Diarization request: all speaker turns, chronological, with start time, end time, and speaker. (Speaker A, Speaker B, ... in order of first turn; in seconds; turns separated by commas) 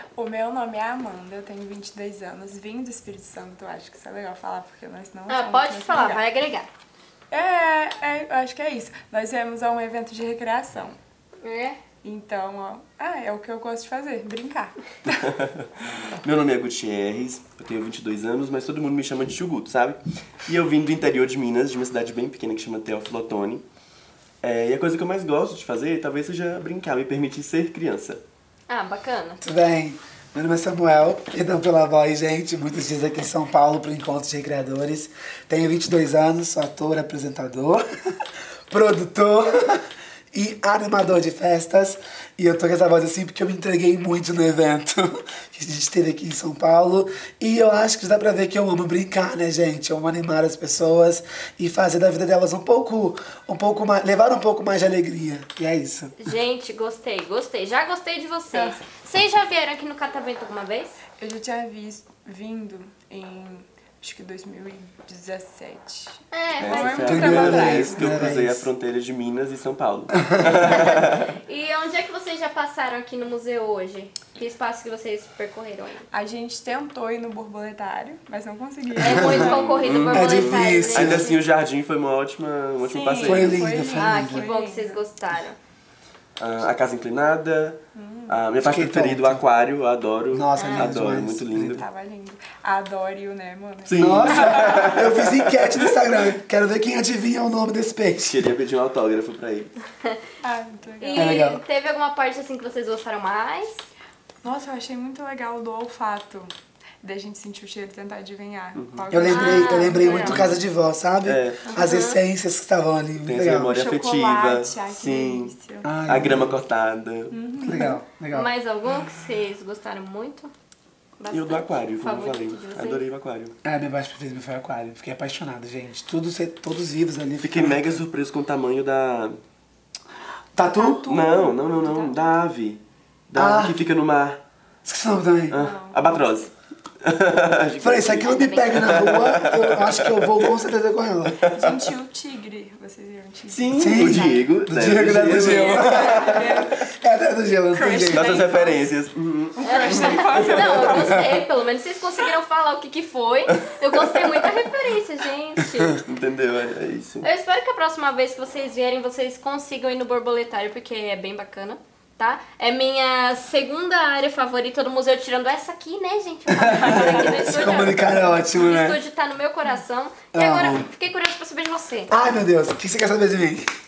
Speaker A: 0.1-6.2, Speaker B: 5.3-6.7, Speaker A: 7.3-11.0, Speaker B: 11.4-11.8, Speaker A: 12.0-15.3, Speaker C: 15.2-15.7, Speaker C: 16.2-23.6, Speaker C: 24.4-28.2, Speaker B: 28.7-29.4, Speaker D: 29.4-37.8, Speaker D: 38.7-56.1, Speaker B: 56.2-61.0, Speaker A: 61.2-68.3, Speaker B: 66.3-67.4, Speaker C: 66.6-71.3, Speaker D: 67.0-68.7, Speaker D: 70.1-70.9, Speaker B: 70.7-76.1, Speaker A: 76.1-79.6, Speaker B: 79.0-81.4, Speaker D: 79.0-79.5, Speaker C: 79.1-83.7, Speaker D: 80.1-81.3, Speaker A: 82.8-85.0, Speaker D: 83.2-84.4, Speaker B: 83.9-85.6, Speaker C: 86.4-91.8, Speaker A: 88.0-88.4, Speaker D: 88.6-89.4, Speaker D: 90.3-91.8, Speaker B: 90.5-90.9, Speaker A: 91.7-95.0, Speaker C: 93.8-96.0, Speaker D: 94.0-98.4, Speaker C: 98.2-99.7, Speaker A: 100.4-101.3, Speaker B: 101.0-103.8, Speaker D: 101.1-101.6, Speaker A: 104.4-106.5, Speaker A: 107.0-110.6, Speaker C: 108.7-109.1, Speaker D: 109.1-113.8, Speaker B: 109.2-110.4, Speaker C: 110.3-110.5, Speaker C: 111.2-111.6, Speaker B: 111.7-112.2, Speaker C: 113.2-115.5, Speaker A: 113.7-116.1, Speaker D: 115.8-116.6, Speaker C: 116.0-117.4, Speaker A: 117.3-118.0, Speaker D: 117.6-118.5, Speaker B: 118.3-120.5, Speaker B: 121.2-123.0, Speaker C: 121.3-123.5, Speaker D: 123.6-128.0, Speaker C: 127.4-129.4, Speaker D: 130.5-131.1, Speaker A: 130.8-132.1, Speaker C: 131.1-134.4, Speaker D: 133.3-133.8, Speaker D: 134.8-135.6, Speaker C: 135.5-136.5, Speaker A: 135.5-136.5, Speaker C: 137.0-140.5, Speaker D: 137.8-141.4, Speaker B: 138.2-139.0, Speaker C: 141.4-141.8, Speaker A: 141.5-144.4, Speaker C: 143.5-146.8, Speaker D: 143.7-148.5, Speaker A: 145.3-146.8, Speaker A: 147.7-148.9, Speaker C: 147.9-151.0, Speaker A: 149.6-151.2, Speaker B: 149.6-156.0, Speaker D: 151.0-151.3, Speaker C: 156.0-157.2, Speaker B: 157.2-172.1, Speaker D: 166.5-169.0, Speaker A: 166.7-167.8, Speaker D: 170.3-170.9, Speaker D: 172.1-173.7